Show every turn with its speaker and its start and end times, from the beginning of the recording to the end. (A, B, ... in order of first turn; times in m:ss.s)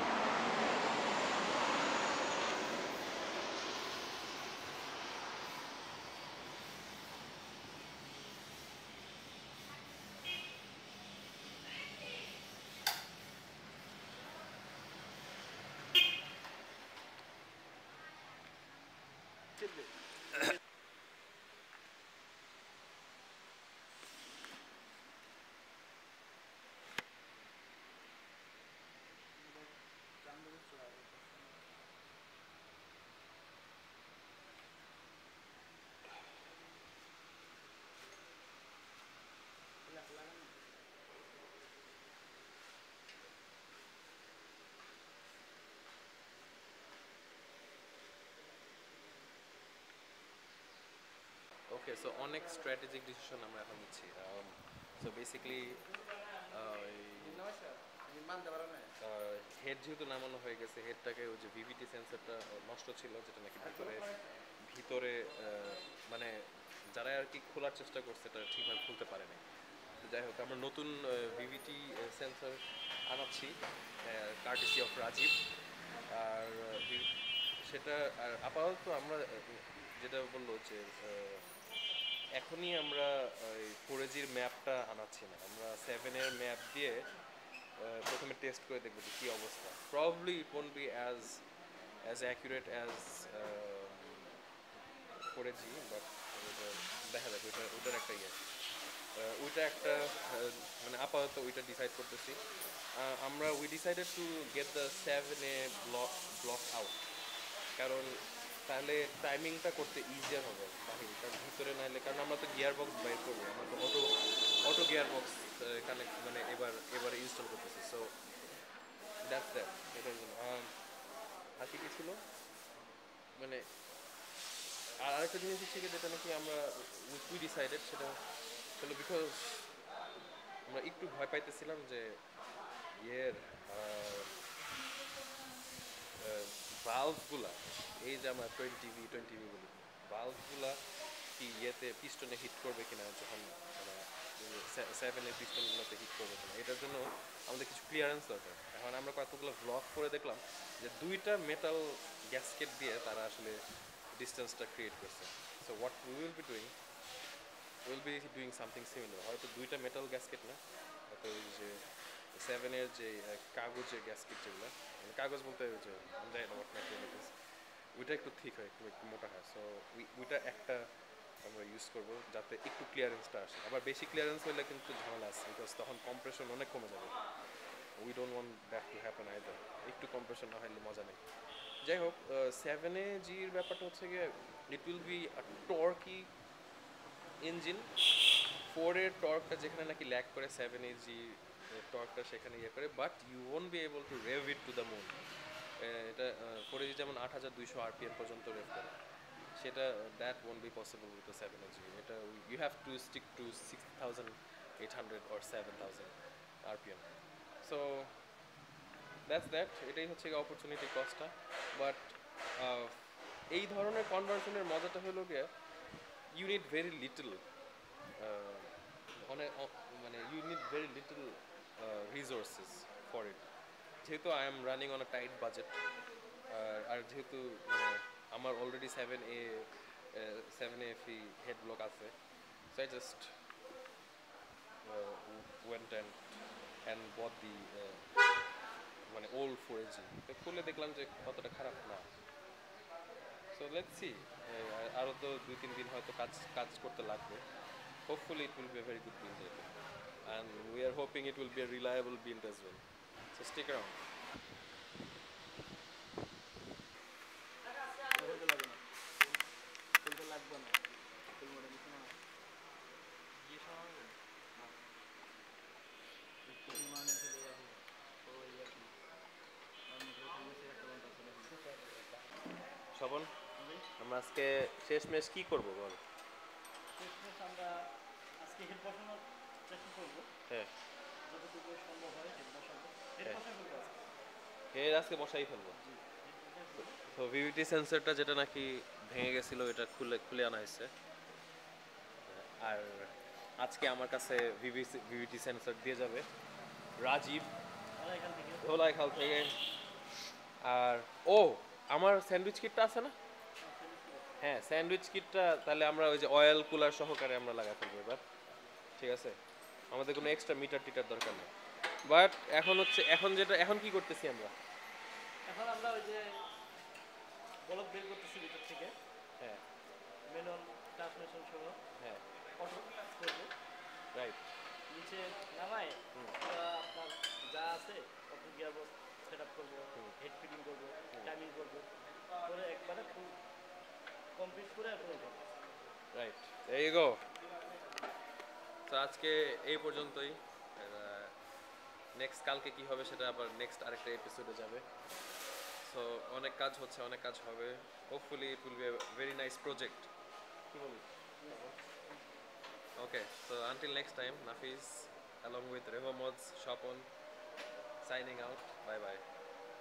0:19.6-0:20.5 A
0:30.2-0:31.4 A
0:40.0-0:40.3 A
0:51.7-0:55.8 B
0:56.4-0:57.5 B
0:58.2-0:58.8 A
0:59.0-1:06.4 B
1:06.9-1:09.4 B
1:10.0-1:15.4 B
1:16.1-1:17.1 B
1:17.6-1:21.5 B
1:22.4-1:27.1 B
1:27.8-1:31.4 B
1:32.0-1:34.3 B
1:35.2-1:38.4 B
1:39.1-1:42.4 B
1:42.9-1:47.0 B
1:47.8-1:54.1 B
1:54.6-1:58.1 B
1:59.2-2:00.7 B
2:01.6-2:02.2 B
2:03.4-2:03.6 B
2:05.0-2:08.2 B
2:08.8-2:09.7 B
2:10.7-2:12.2 B
2:13.0-2:14.3 B
2:16.2-2:20.8 B
2:21.4-2:33.6 B
2:34.1-2:36.7 B
2:37.8-2:41.8 B
2:42.3-2:47.3 B
2:48.0-2:50.9 B
2:51.4-2:57.2 B
2:58.0-3:01.2 B
3:01.8-3:06.3 B
3:07.4-3:07.9 B
3:08.7-3:15.2 B
3:15.8-3:18.9 B
3:19.6-3:27.0 B
3:27.6-3:28.1 B
3:29.3-3:33.0 B
3:33.5-3:35.5 B
3:36.3-3:37.4 B
3:38.2-3:43.5 B
3:44.0-3:45.8 B
3:46.5-3:52.2 B
3:52.7-3:53.3 B
3:54.8-3:58.0 B
3:59.1-4:02.2 B
4:03.5-4:07.4 B
4:08.1-4:14.0 B
4:18.1-4:18.8 A
4:20.0-4:20.8 A
4:21.3-4:22.2 A
4:23.5-4:24.0 A
4:26.5-4:28.9 A
4:29.9-4:31.6 A
4:33.0-4:33.3 B
4:33.6-4:33.9 A
4:34.0-4:36.0 B
4:37.0-4:37.7 A
4:38.4-4:40.3 A
4:41.3-4:44.0 A
4:44.7-4:45.8 B
4:45.7-4:47.0 A
4:47.0-4:50.9 B
4:52.2-4:56.3 B
4:57.0-4:57.5 B
4:58.0-4:58.7 A
4:58.6-4:59.5 B
5:00.6-5:03.2 B
5:03.6-5:04.3 A
5:04.4-5:08.2 B
5:09.0-5:09.4 B
5:09.9-5:11.5 B
5:12.1-5:14.5 B
5:15.5-5:16.2 A
5:17.7-5:18.9 A
5:20.3-5:21.8 A
5:22.0-5:22.2 B
5:22.6-5:23.5 A
5:24.1-5:24.5 B
5:24.9-5:31.9 A
5:32.4-5:33.4 A
5:34.4-5:35.4 A
5:36.1-5:37.2 B
5:38.9-5:41.4 B
5:42.2-5:44.9 B
5:45.8-5:50.1 B
5:50.7-5:51.7 B
5:53.0-5:57.1 B
5:58.0-5:59.2 B